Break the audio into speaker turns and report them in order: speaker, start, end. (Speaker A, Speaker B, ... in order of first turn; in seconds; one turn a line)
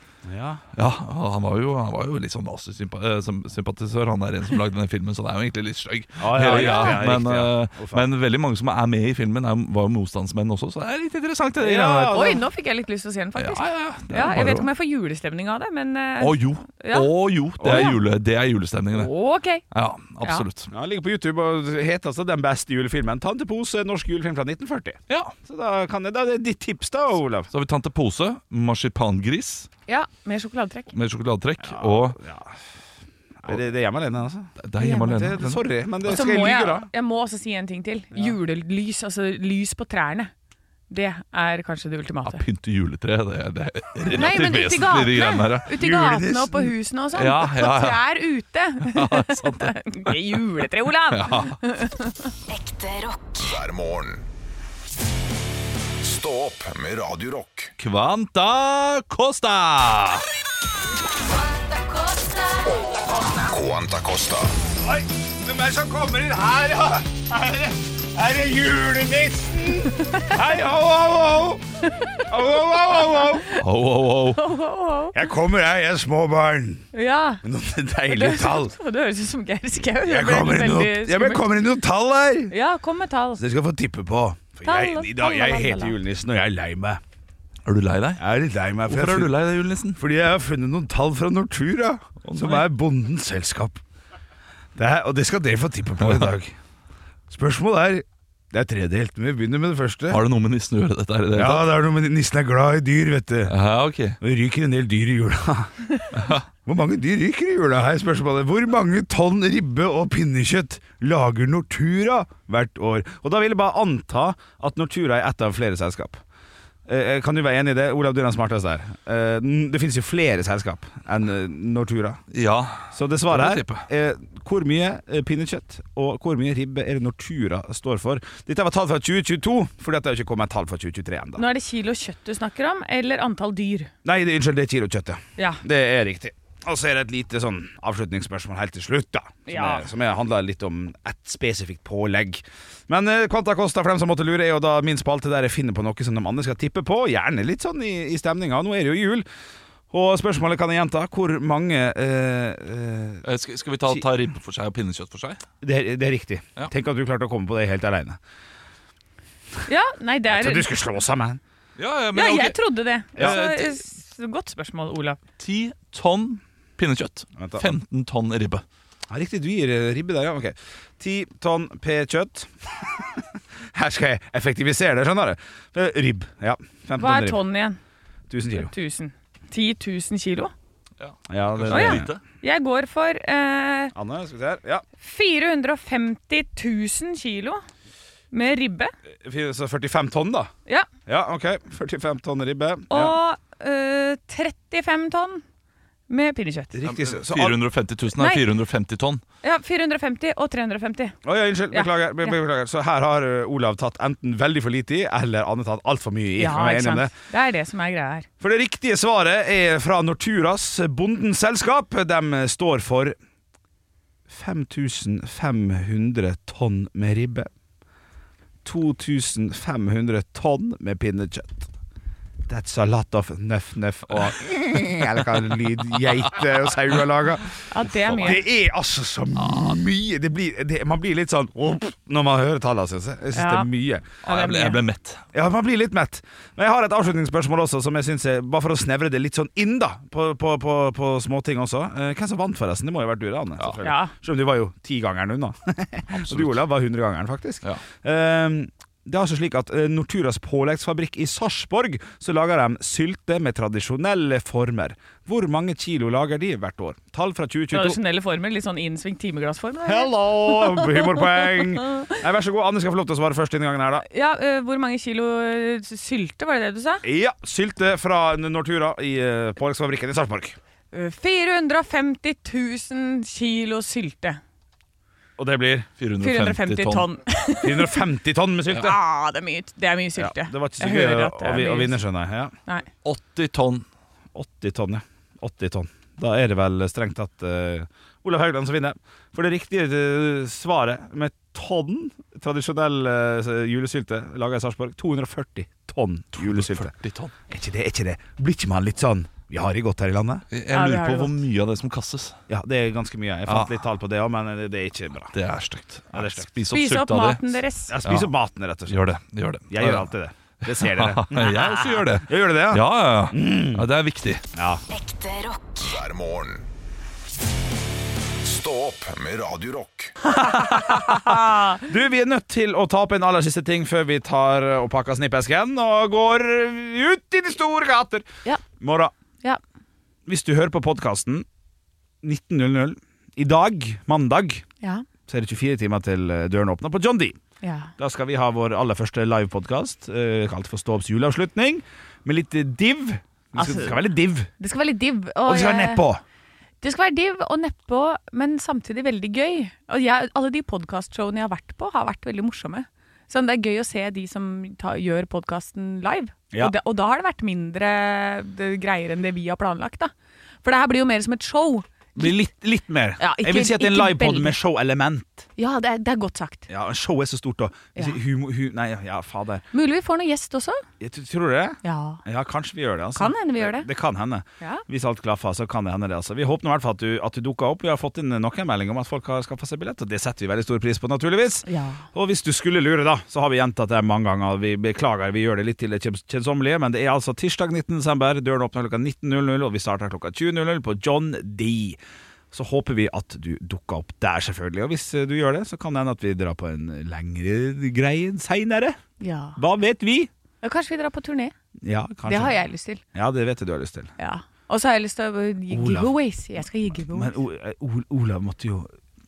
Speaker A: 0.2-0.6
Speaker B: 0.8-12.3
Speaker A: 6.2-8.0
Speaker C: 6.4-7.0
Speaker A: 11.6-12.4
Speaker C: 12.1-17.1
Speaker B: 13.3-14.7
Speaker B: 16.2-19.1
Speaker A: 17.6-17.9
Speaker C: 17.6-18.0
Speaker C: 18.9-19.6
Speaker B: 19.7-20.7
Speaker A: 20.7-27.5
Speaker B: 25.1-25.4
Speaker B: 27.5-29.7
Speaker C: 29.9-30.9
Speaker B: 30.9-32.2
Speaker A: 31.6-32.6
Speaker A: 33.4-36.9
Speaker B: 34.6-35.6
Speaker C: 34.8-35.1
Speaker C: 36.1-40.3
Speaker C: 40.9-42.4
Speaker B: 42.2-45.7
Speaker C: 44.1-52.3
Speaker A: 45.7-46.7
Speaker B: 47.1-48.1
Speaker B: 48.8-50.4
Speaker B: 51.1-51.6
Speaker D: 52.5-53.6
Speaker E: 53.4-54.2
Speaker E: 56.0-57.7
Speaker B: 57.8-60.2
Speaker D: 61.3-63.0
Speaker E: 63.4-64.5
Speaker A: 64.8-71.6
Speaker C: 70.0-70.3
Speaker C: 71.9-72.2
Speaker A: 72.3-73.5
Speaker C: 72.8-73.6
Speaker B: 73.6-74.4
Speaker C: 74.3-75.2
Speaker A: 75.1-76.9
Speaker C: 76.9-77.4
Speaker A: 77.4-78.7
Speaker C: 78.1-81.5
Speaker A: 80.0-82.5
Speaker C: 82.5-83.4
Speaker A: 83.4-87.0
Speaker C: 84.6-86.0
Speaker B: 87.7-88.2
Speaker A: 88.2-89.4
Speaker B: 88.9-90.0
Speaker A: 90.0-93.8
Speaker B: 92.2-92.7
Speaker A: 94.8-96.5
Speaker B: 96.0-96.3
Speaker A: 97.3-100.2
Speaker B: 100.1-101.7
Speaker A: 101.3-103.5
Speaker B: 103.5-104.2
Speaker A: 104.2-105.8
Speaker B: 106.1-106.4
Speaker A: 106.7-116.2
Speaker A: 116.9-122.2
Speaker B: 122.3-123.8
Speaker A: 122.9-131.4
Speaker C: 131.4-133.9
Speaker A: 134.0-149.3
Speaker C: 135.4-135.6
Speaker C: 139.5-139.9
Speaker A: 149.9-153.2
Speaker B: 153.2-155.4
Speaker A: 155.6-158.2
Speaker C: 159.7-160.7
Speaker A: 160.3-161.4
Speaker B: 161.8-162.6
Speaker C: 162.2-165.2
Speaker B: 163.2-163.8
Speaker B: 165.4-168.6
Speaker A: 167.4-167.7
Speaker A: 169.1-177.4
Speaker C: 177.0-177.8
Speaker A: 178.3-178.7
Speaker C: 178.5-180.5
Speaker B: 181.0-182.2
Speaker A: 181.3-182.1
Speaker C: 181.7-183.9
Speaker A: 183.9-184.8
Speaker C: 185.0-187.6
Speaker C: 188.3-188.9
Speaker A: 189.2-190.5
Speaker A: 191.1-193.2
Speaker C: 192.9-195.4
Speaker C: 196.1-196.8
Speaker A: 196.7-197.6
Speaker B: 196.8-199.2
Speaker C: 198.2-198.4
Speaker C: 199.4-201.2
Speaker A: 201.2-207.1
Speaker C: 201.7-202.4
Speaker C: 206.4-208.3
Speaker A: 208.4-213.2
Speaker A: 214.3-217.5
Speaker A: 218.6-221.7
Speaker A: 222.5-227.5
Speaker C: 227.7-228.4
Speaker A: 228.2-234.2
Speaker B: 229.4-229.8
Speaker C: 233.3-233.7
Speaker B: 234.2-235.2
Speaker C: 234.2-234.8
Speaker A: 235.3-258.0
Speaker C: 243.8-244.1
Speaker B: 246.1-246.6
Speaker C: 257.7-262.2
Speaker A: 259.9-264.1
Speaker C: 264.1-267.0
Speaker A: 267.0-270.6
Speaker C: 270.9-274.4
Speaker A: 275.4-275.9
Speaker B: 276.0-277.1
Speaker C: 276.2-278.0
Speaker A: 277.6-279.0
Speaker C: 278.8-282.0
Speaker A: 280.2-282.5
Speaker B: 283.1-283.9
Speaker A: 284.3-296.9
Speaker B: 296.4-297.3
Speaker A: 297.5-300.4
Speaker B: 300.5-302.4
Speaker C: 300.7-301.4
Speaker A: 302.5-305.4
Speaker B: 303.5-303.8
Speaker B: 305.3-308.3
Speaker A: 306.1-306.5
Speaker C: 306.7-308.0
Speaker A: 307.9-309.0
Speaker B: 308.9-310.1
Speaker A: 309.7-313.9
Speaker B: 310.7-314.4
Speaker A: 314.5-314.8
Speaker D: 314.9-315.9
Speaker E: 315.8-316.7
Speaker E: 318.4-320.1
Speaker A: 320.3-328.3
Speaker C: 320.6-321.8
Speaker A: 328.8-329.1
Speaker A: 330.3-331.5
Speaker A: 332.2-334.6
Speaker A: 335.3-337.4
Speaker C: 337.6-337.9
Speaker A: 338.0-344.5
Speaker C: 343.6-346.1
Speaker A: 345.5-346.2
Speaker C: 346.8-360.1
Speaker C: 360.6-362.3
Speaker A: 362.2-365.5
Speaker C: 363.2-364.6
Speaker C: 365.6-366.7
Speaker A: 366.7-369.6
Speaker C: 369.7-370.8
Speaker A: 371.0-392.0
Speaker C: 371.8-372.2
Speaker C: 373.2-373.9
Speaker C: 381.7-382.1
Speaker A: 392.5-399.0
Speaker C: 399.2-399.6
Speaker A: 399.6-400.3
Speaker C: 400.6-401.5
Speaker A: 401.8-402.6
Speaker C: 402.3-403.0
Speaker A: 403.1-404.1
Speaker C: 404.2-407.4
Speaker A: 405.7-406.1
Speaker A: 407.1-408.9